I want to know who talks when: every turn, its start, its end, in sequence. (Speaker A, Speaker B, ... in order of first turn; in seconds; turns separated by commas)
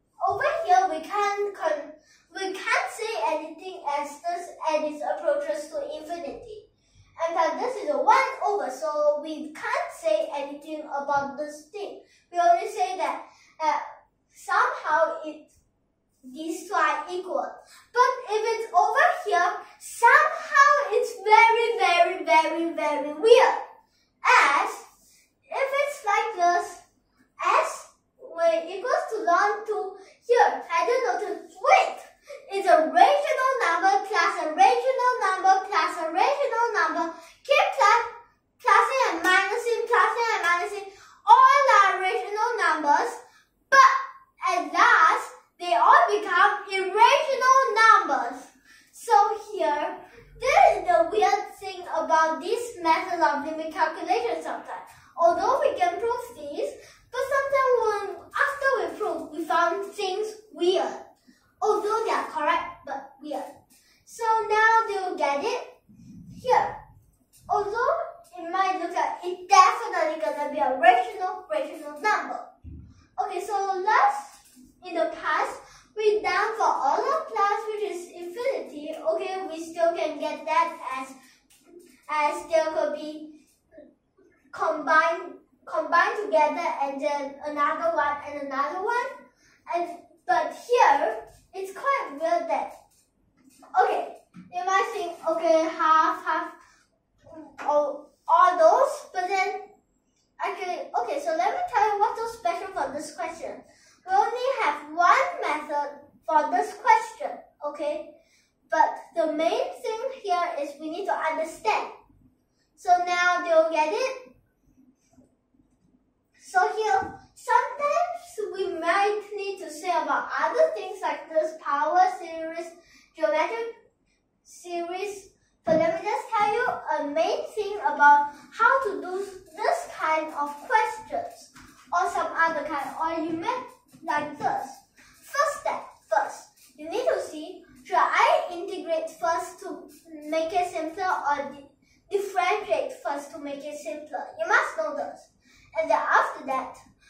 Speaker A: 0.2-6.7, Speaker A: 7.2-15.5, Speaker A: 16.2-23.6, Speaker A: 24.2-24.8, Speaker A: 25.5-26.8, Speaker A: 27.4-61.1, Speaker A: 61.6-63.5, Speaker A: 64.0-65.7, Speaker A: 66.3-66.8, Speaker A: 67.5-72.5, Speaker A: 73.2-81.2, Speaker A: 82.1-83.4, Speaker A: 84.5-92.7, Speaker A: 93.7-96.5, Speaker A: 97.3-99.7, Speaker A: 100.4-108.1, Speaker A: 108.7-111.9, Speaker A: 112.8-114.3, Speaker A: 116.4-123.8, Speaker A: 124.4-146.8